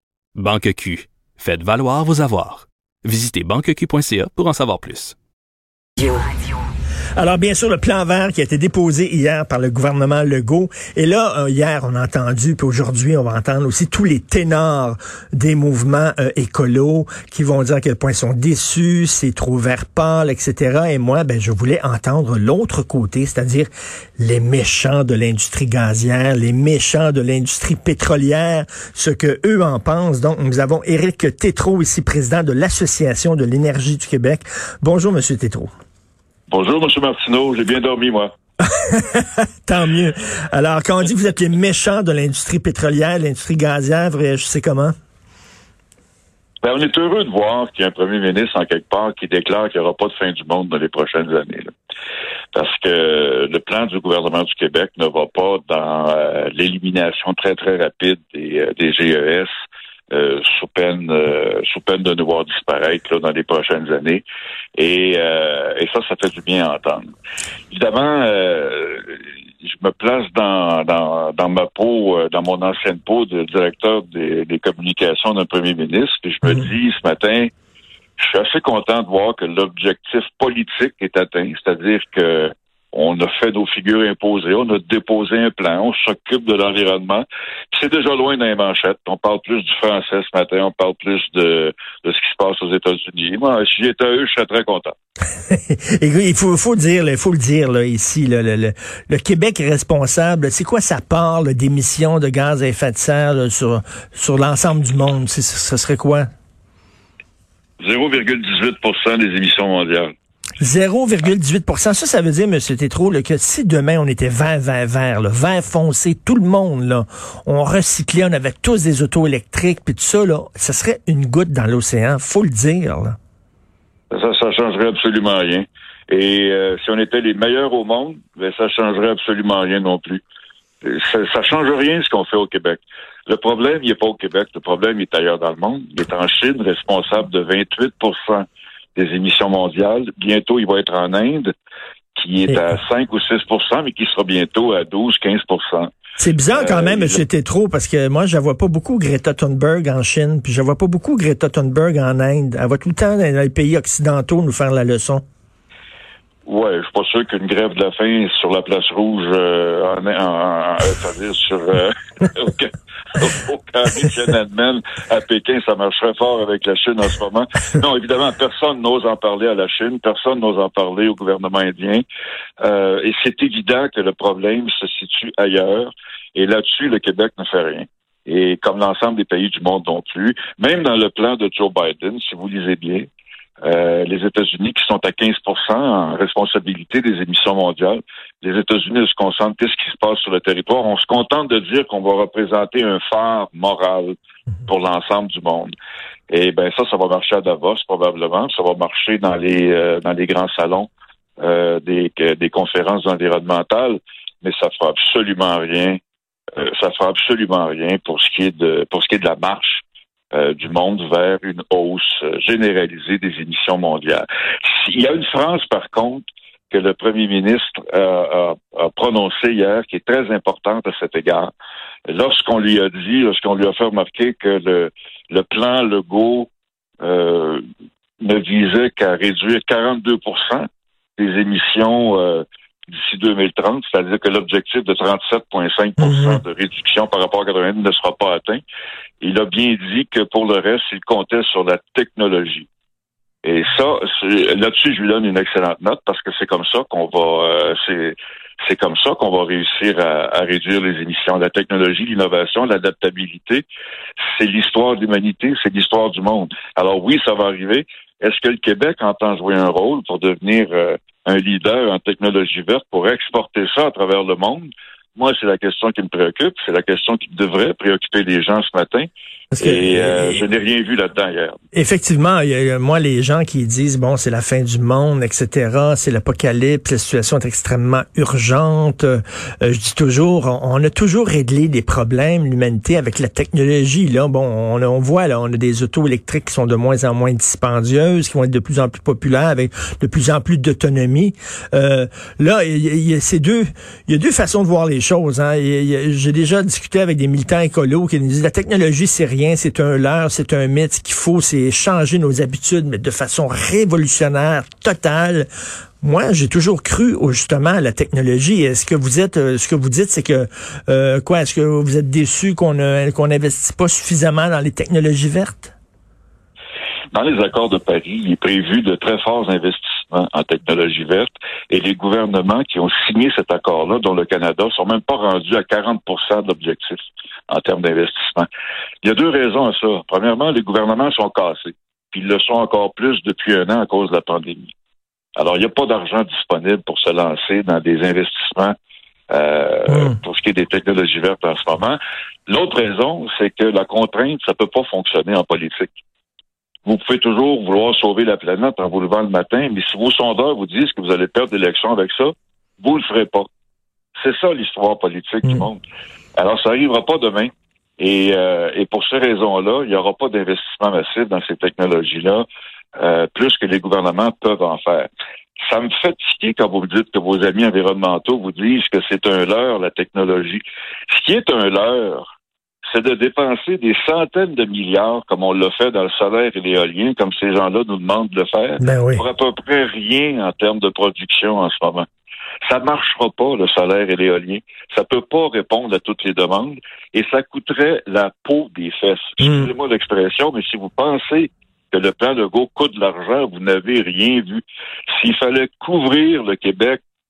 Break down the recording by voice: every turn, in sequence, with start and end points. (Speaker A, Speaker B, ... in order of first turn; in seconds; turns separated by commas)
Speaker A: 0.3-5.2, Speaker B: 7.1-35.7, Speaker C: 36.5-38.3, Speaker B: 38.6-44.9, Speaker C: 46.6-51.7, Speaker C: 52.5-59.5, Speaker C: 60.1-64.2, Speaker C: 64.8-67.0, Speaker C: 67.7-77.5, Speaker C: 78.2-94.9, Speaker B: 95.5-106.3, Speaker C: 107.8-110.1, Speaker B: 110.6-123.1, Speaker C: 124.1-130.2, Speaker C: 130.8-141.5, Speaker C: 142.1-145.9, Speaker B: 146.2-155.2, Speaker C: 146.5-147.2, Speaker C: 156.4-172.0, Speaker C: 172.6-183.1, Speaker C: 183.6-194.1, Speaker C: 194.7-195.7, Speaker C: 196.3-206.0, Speaker C: 206.6-221.5, Speaker C: 222.1-226.5, Speaker C: 227.0-227.6, Speaker C: 228.2-238.6, Speaker B: 236.0-236.4, Speaker C: 239.2-242.7, Speaker C: 243.4-253.7, Speaker C: 254.2-269.1, Speaker B: 269.5-270.4, Speaker C: 269.6-271.6, Speaker B: 271.7-305.5, Speaker B: 306.0-315.7, Speaker C: 317.1-328.5, Speaker C: 329.0-334.7, Speaker C: 335.4-338.7, Speaker C: 339.3-346.0, Speaker C: 346.8-353.5, Speaker C: 354.2-355.8, Speaker C: 356.4-362.4, Speaker C: 363.0-365.1, Speaker C: 365.6-372.3, Speaker C: 372.9-382.0, Speaker B: 378.8-379.2, Speaker C: 382.6-397.0, Speaker B: 389.4-389.7